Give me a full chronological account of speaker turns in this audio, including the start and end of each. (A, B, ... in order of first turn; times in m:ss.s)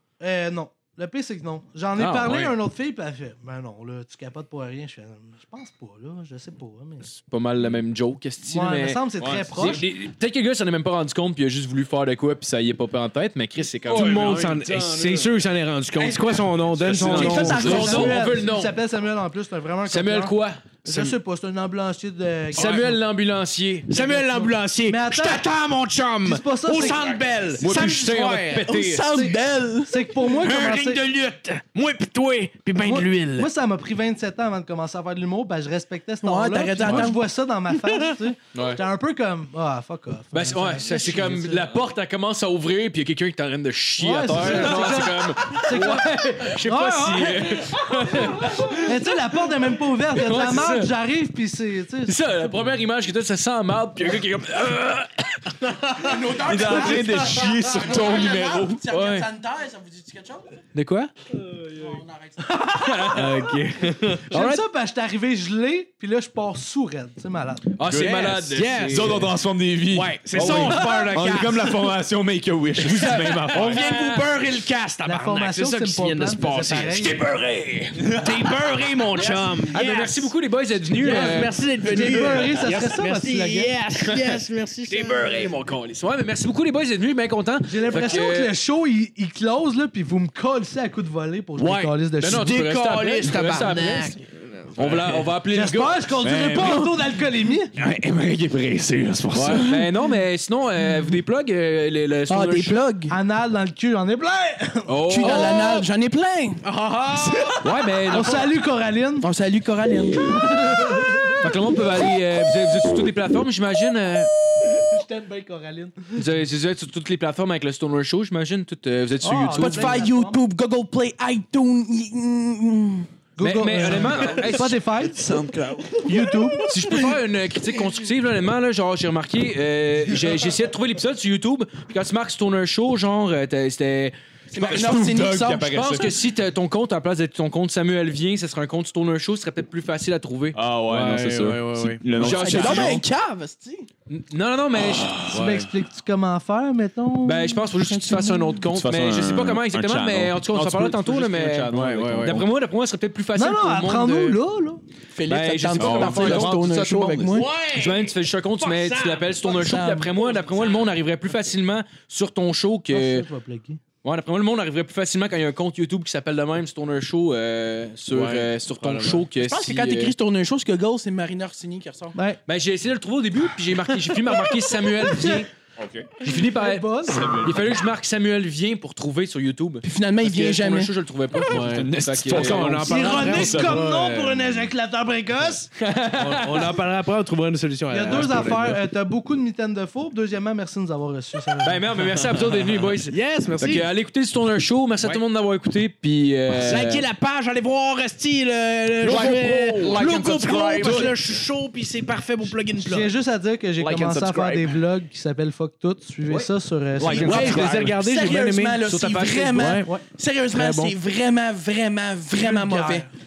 0:00.2-0:07.1 A
0:02.0-0:02.6 B
0:07.0-0:14.7 B
0:08.4-0:09.8 A
0:09.2-0:09.8 C
0:13.9-0:15.4 C
0:13.9-0:18.1 D
0:16.0-0:18.2 E
0:16.8-0:18.0 C
0:16.8-0:18.8 B
0:17.2-0:23.0 A
0:19.9-0:21.2 B
0:22.5-0:23.9 B
0:23.9-0:28.7 D
0:23.9-0:25.5 A
0:26.2-0:27.4 A
0:27.6-0:29.2 B
0:28.5-0:30.0 E
0:29.1-0:31.0 A
0:30.2-0:33.5 D
0:32.8-0:41.7 A
0:36.2-0:37.2 E
0:36.8-0:37.1 B
0:38.5-0:38.8 B
0:40.3-0:48.9 B
0:44.0-0:52.2 A
0:50.1-0:50.9 B
0:52.1-0:55.2 B
0:56.0-1:00.6 E
0:56.4-0:58.8 C
0:56.6-0:56.9 D
0:58.9-0:59.3 B
1:00.7-1:01.1 B
1:01.6-1:01.9 D
1:01.7-1:02.6 E
1:02.5-1:03.5 A
1:02.7-1:03.4 B
1:03.1-1:04.5 D
1:04.3-1:07.8 A
1:04.3-1:04.6 B
1:07.8-1:09.3 B
1:07.9-1:09.3 D
1:07.9-1:13.8 C
1:09.9-1:12.0 D
1:10.3-1:11.1 B
1:12.8-1:20.3 D
1:13.2-1:14.2 B
1:15.0-1:17.3 A
1:18.0-1:18.6 C
1:19.2-1:22.2 B
1:21.0-1:25.6 D
1:21.0-1:23.7 A
1:24.1-1:28.6 B
1:27.6-1:32.5 A
1:31.6-1:35.2 D
1:32.2-1:34.2 B
1:33.6-1:33.9 E
1:34.8-1:36.1 B
1:35.5-1:37.7 A
1:36.2-1:36.9 C
1:37.8-1:39.9 C
1:39.3-1:42.8 B
1:39.4-1:39.7 D
1:42.3-1:43.2 E
1:43.1-1:45.9 A
1:44.9-1:45.8 B
1:45.1-1:47.6 E
1:46.6-1:47.7 D
1:47.6-1:48.5 B
1:48.1-1:49.3 A
1:49.2-1:50.5 E
1:50.3-1:51.5 A
1:51.4-1:54.3 B
1:54.7-1:56.2 A
1:56.2-2:00.1 B
1:59.2-2:00.4 A
1:59.6-2:03.1 E
2:03.4-2:06.7 A
2:03.4-2:04.8 B
2:04.0-2:05.9 C
2:06.6-2:14.2 B
2:14.5-2:16.1 E
2:14.5-2:16.2 C
2:15.6-2:20.6 B
2:20.5-2:23.0 C
2:20.9-2:22.0 D
2:22.2-2:23.0 B
2:22.2-2:23.9 E
2:24.1-2:25.6 B
2:24.8-2:25.5 C
2:25.3-2:28.6 A
2:27.2-2:34.4 B
2:28.7-2:32.5 C
2:31.7-2:32.5 D
2:33.4-2:34.8 A
2:35.1-2:37.5 E
2:35.3-2:43.3 B
2:35.8-2:37.4 C
2:37.3-2:40.7 D
2:39.5-2:40.6 E
2:42.9-2:43.8 A
2:44.0-2:50.1 B
2:48.1-2:49.3 D
2:49.4-2:52.2 E
2:52.1-2:52.4 A
2:52.5-2:55.5 B
2:55.0-2:55.5 A
2:55.8-2:56.1 C
2:56.2-3:02.9 B
2:56.3-2:57.5 A
2:57.0-2:57.8 C
2:59.8-3:00.9 E
3:01.4-3:03.9 C
3:01.5-3:04.5 D
3:02.9-3:05.7 A
3:05.8-3:06.8 B
3:06.2-3:08.8 D
3:07.9-3:12.0 A
3:11.6-3:17.1 B
3:12.4-3:13.9 D
3:16.5-3:23.1 D
3:19.0-3:21.2 C
3:22.8-3:27.6 A
3:23.8-3:24.8 C
3:27.0-3:28.0 C
3:27.2-3:28.8 D
3:27.2-3:33.1 E
3:28.8-3:29.6 B
3:29.5-3:30.0 D
3:30.5-3:31.0 D
3:32.3-3:33.1 A